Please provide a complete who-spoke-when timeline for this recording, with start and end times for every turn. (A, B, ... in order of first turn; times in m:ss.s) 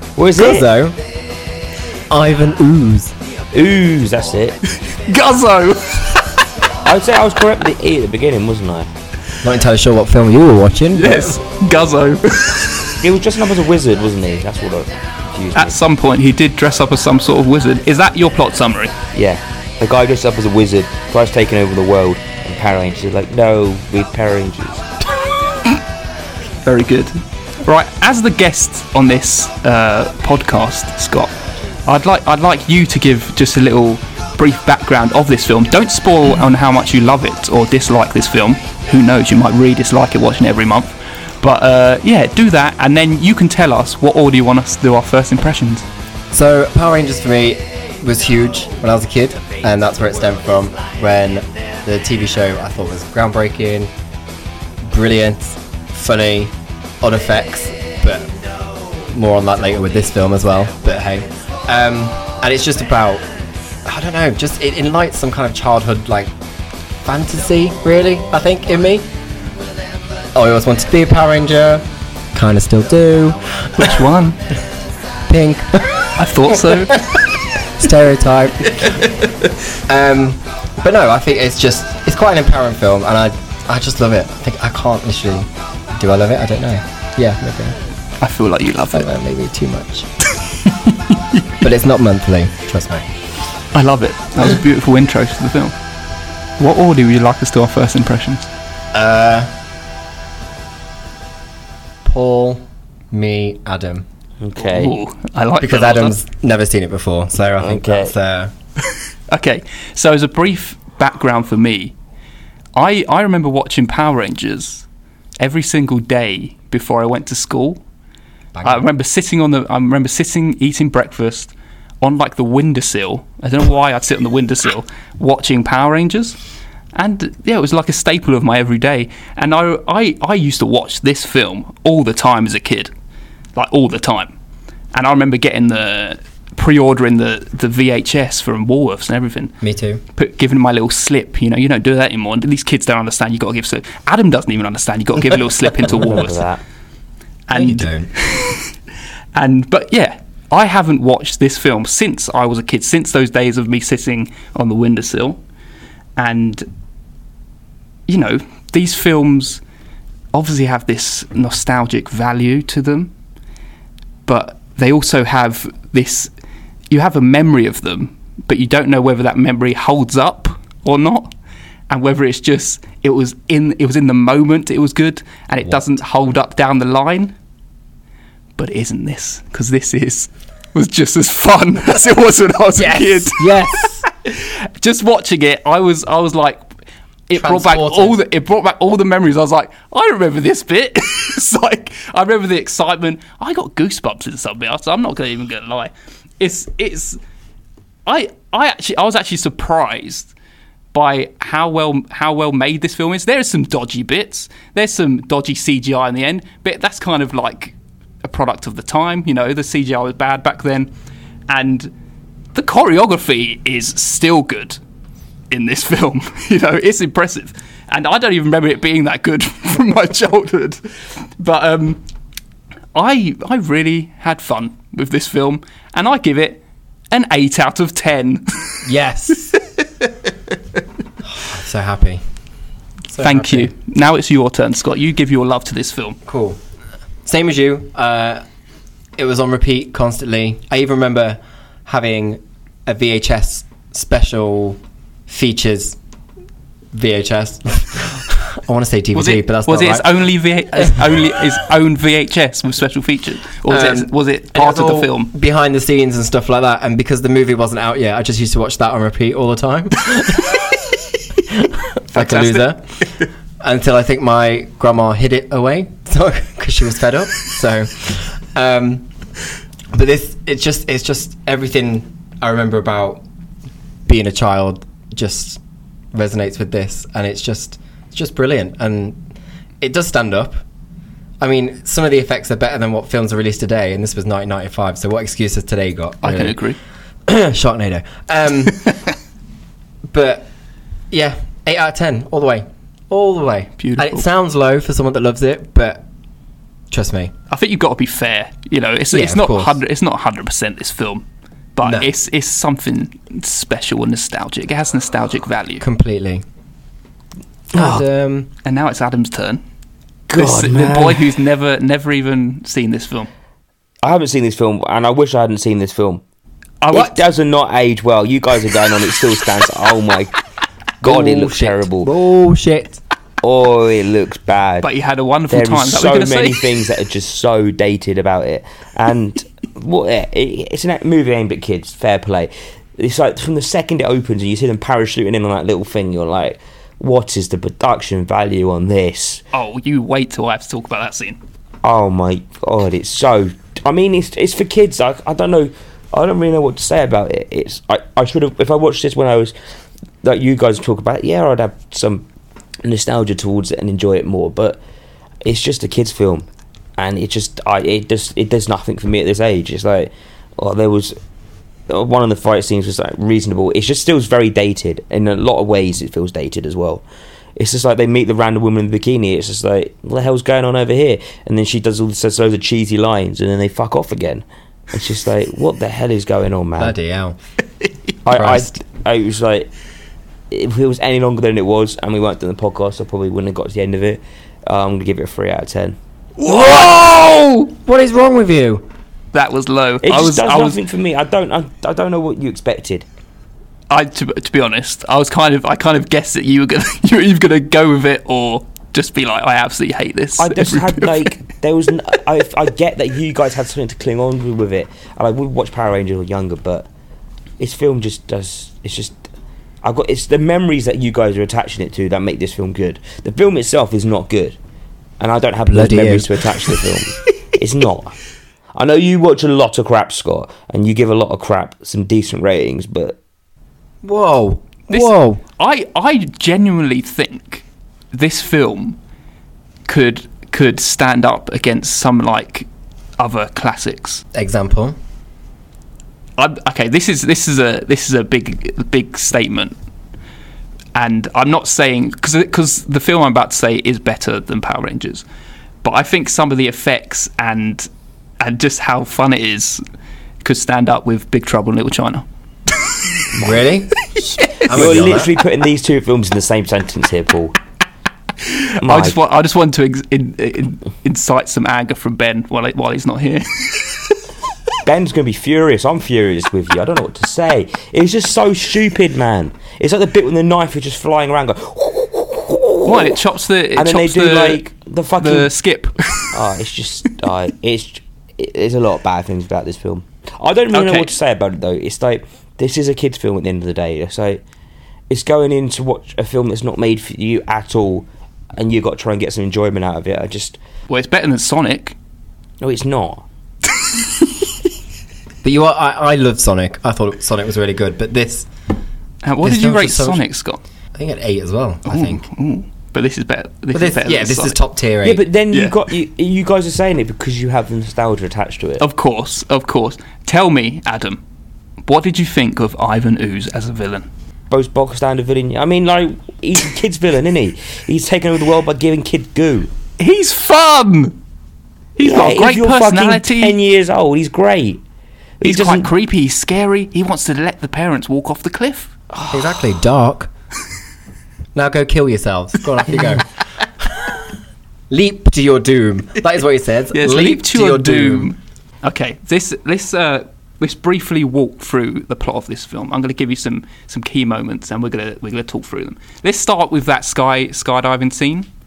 0:00.2-0:00.7 A
0:00.4-0:01.0 B
0:02.1-0:03.2 B
0:03.5-0:04.6 A
0:04.9-0:06.4 C
0:06.8-0:08.9 A
0:09.4-0:11.4 B
0:11.0-0:13.0 C
0:13.0-0:15.8 A
0:15.6-0:19.0 C
0:19.1-0:24.9 A
0:26.6-0:31.3 C
0:31.9-0:45.9 C
0:46.3-0:53.9 B
0:54.8-0:58.3 B
0:59.1-1:03.2 B
1:03.8-1:06.3 B
1:07.0-1:09.1 B
1:10.4-1:14.0 B
1:13.8-1:14.4 C
1:15.3-1:27.8 B
1:16.2-1:17.1 C
1:28.2-1:29.1 C
1:28.9-1:30.1 B
1:30.8-1:31.2 C
1:31.6-1:33.1 B
1:33.7-1:35.8 C
1:36.6-1:38.4 C
1:38.9-1:39.5 B
1:42.0-1:44.0 B
1:44.4-1:45.0 A
1:44.6-1:46.2 C
1:45.6-1:48.5 B
1:47.6-1:48.1 A
1:49.3-1:52.0 C
1:52.8-1:54.9 C
1:55.4-1:57.8 C
1:58.6-1:58.8 B
1:58.6-2:06.4 C
2:07.0-2:12.9 C
2:13.6-2:14.3 C
2:14.9-2:19.6 C
2:19.6-2:20.0 B
2:20.2-2:26.4 C
2:25.8-2:26.6 A
2:27.5-2:28.7 C
2:27.5-2:28.1 B
2:29.4-2:35.4 C
2:36.2-2:36.7 C
2:38.1-2:39.6 C
2:40.3-2:43.1 C
2:44.3-2:46.3 C
2:46.9-2:51.3 C
2:51.9-2:57.4 C
2:58.6-3:06.7 C
3:02.8-3:04.0 B
3:07.3-3:17.2 C
3:07.4-3:08.2 B
3:18.1-3:20.3 C
3:20.9-3:30.9 C
3:31.5-3:31.9 C
3:32.5-3:34.8 C
3:35.5-3:42.0 C
3:43.0-3:48.9 C
3:48.8-3:49.6 B
3:51.3-3:52.2 B
3:53.1-3:53.7 B
3:53.2-3:56.2 C
3:56.2-3:56.6 B
3:57.2-3:58.4 B
3:59.2-4:06.0 B
4:06.9-4:10.1 B
4:09.1-4:15.3 C
4:13.7-4:20.8 B
4:21.5-4:23.0 B
4:22.1-4:22.7 C
4:23.6-4:29.1 B
4:29.9-4:33.2 B
4:34.1-4:35.6 B
4:36.1-4:39.2 B
4:39.8-4:40.6 B
4:41.4-4:46.6 B
4:46.2-4:46.8 C
4:47.3-4:49.0 B
4:50.1-4:50.5 B
4:51.1-4:56.0 B
4:53.8-4:54.3 C
4:56.9-4:57.3 B
4:57.5-5:01.2 C
4:59.1-4:59.8 B
5:01.8-5:05.8 C
5:01.8-5:02.1 B
5:05.8-5:06.4 B
5:07.7-5:08.5 B
5:07.7-5:08.0 A
5:08.6-5:09.6 C
5:10.3-5:11.4 A
5:10.3-5:13.3 C
5:14.0-5:16.2 A
5:16.8-5:17.2 C
5:16.9-5:20.4 A
5:21.0-5:22.1 A
5:21.0-5:23.0 B
5:23.4-5:24.9 A
5:24.8-5:26.7 C
5:25.5-5:39.4 A
5:39.5-5:41.4 C
5:41.8-5:49.5 A
5:50.2-5:52.2 A
5:52.8-5:54.8 A
5:55.4-5:56.5 A
5:57.0-6:01.2 A
6:01.9-6:07.0 A
6:07.6-6:17.0 A
6:16.8-6:17.4 B
6:18.2-6:19.7 A
6:18.3-6:18.8 B
6:20.5-6:26.0 A
6:26.4-6:27.5 C
6:26.4-6:28.9 B
6:29.3-6:30.8 C
6:30.0-6:33.0 A
6:33.9-6:41.3 C
6:40.4-6:46.9 A
6:47.6-6:49.2 A
6:49.8-6:54.6 A
6:55.2-6:58.2 A
6:55.7-6:56.4 B
6:58.8-7:03.2 A
7:04.0-7:05.4 B
7:04.9-7:09.0 C
7:09.9-7:12.7 C
7:13.2-7:14.2 C
7:14.3-7:15.0 B
7:16.4-7:19.8 C
7:21.0-7:25.2 C
7:25.8-7:27.9 C
7:28.4-7:29.8 C
7:30.4-7:32.3 C
7:33.4-7:33.6 A
7:33.4-7:34.0 B
7:34.2-7:34.7 C
7:34.7-7:35.3 B
7:34.7-7:37.6 A
7:38.4-7:44.2 C
7:38.8-7:39.2 A
7:44.8-7:53.2 A
7:52.8-7:54.6 C
7:53.8-7:55.5 A
7:55.2-7:56.3 C
7:56.3-8:04.4 A
8:00.7-8:01.1 C
8:05.1-8:08.1 A
8:08.6-8:10.6 A
8:10.9-8:12.0 C
8:12.6-8:13.2 A
8:15.4-8:18.5 B
8:19.2-8:20.6 C
8:19.4-8:20.2 B
8:20.9-8:22.2 B
8:21.9-8:24.6 C
8:23.7-8:25.2 B
8:25.0-8:28.8 A
8:28.8-8:31.2 C
8:31.8-8:34.1 C
8:34.5-8:39.7 A
8:40.0-8:41.2 C
8:42.0-8:43.6 C
8:42.0-8:44.8 A
8:45.4-8:45.9 A
8:45.4-8:48.9 C
8:49.1-8:49.6 A
8:49.3-8:50.3 B
8:51.6-8:53.3 B
8:53.8-8:54.2 B
8:54.9-8:58.3 B
8:56.9-9:08.5 C